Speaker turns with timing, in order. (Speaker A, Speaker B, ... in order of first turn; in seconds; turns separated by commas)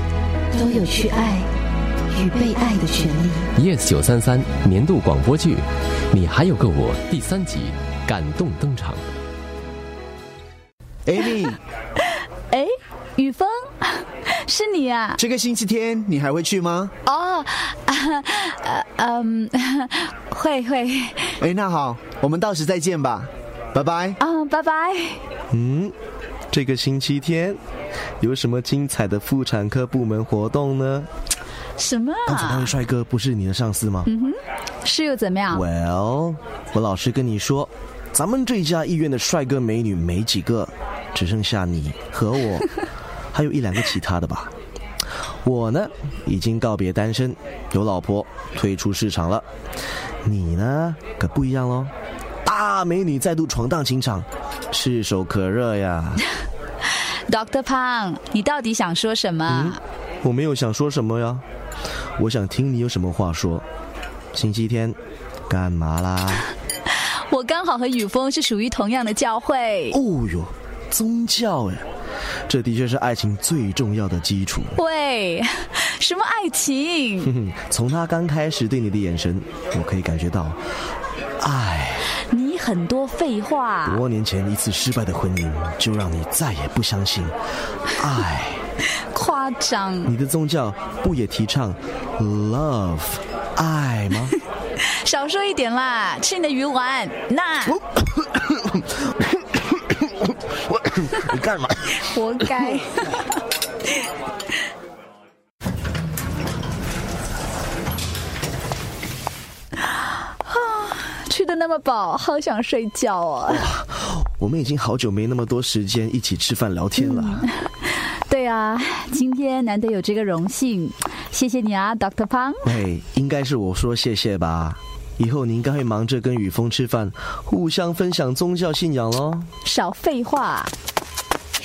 Speaker A: 0.5-1.5, Speaker A: 2.1-3.4, Speaker B: 3.6-5.6, Speaker B: 6.1-9.0, Speaker C: 11.1-11.6, Speaker D: 12.5-15.2, Speaker C: 15.2-16.9, Speaker D: 17.1-21.3, Speaker C: 21.4-24.2, Speaker D: 24.2-25.2, Speaker E: 25.5-25.9, Speaker E: 26.5-27.6, Speaker E: 28.2-31.1, Speaker D: 31.8-32.7, Speaker E: 32.3-34.1, Speaker D: 34.1-35.6, Speaker E: 35.5-42.7, Speaker E: 43.3-44.5, Speaker E: 45.4-49.5, Speaker E: 50.2-51.9, Speaker E: 52.5-56.2, Speaker D: 57.3-59.8, Speaker E: 59.5-61.4, Speaker E: 62.2-63.6, Speaker E: 64.3-65.0, Speaker E: 65.5-66.5, Speaker D: 67.3-70.0, Speaker E: 69.9-71.8, Speaker E: 72.5-74.8, Speaker D: 74.7-77.3, Speaker E: 77.2-80.6, Speaker E: 81.4-82.1, Speaker D: 82.3-84.0, Speaker E: 83.9-87.3, Speaker E: 88.0-88.6, Speaker D: 89.1-90.1, Speaker E: 90.1-94.3, Speaker D: 95.0-97.8, Speaker E: 97.7-102.0, Speaker D: 102.0-103.2, Speaker D: 110.5-113.7, Speaker E: 113.5-117.5, Speaker D: 117.0-117.5, Speaker D: 118.2-122.7, Speaker E: 122.6-129.5, Speaker D: 129.6-130.7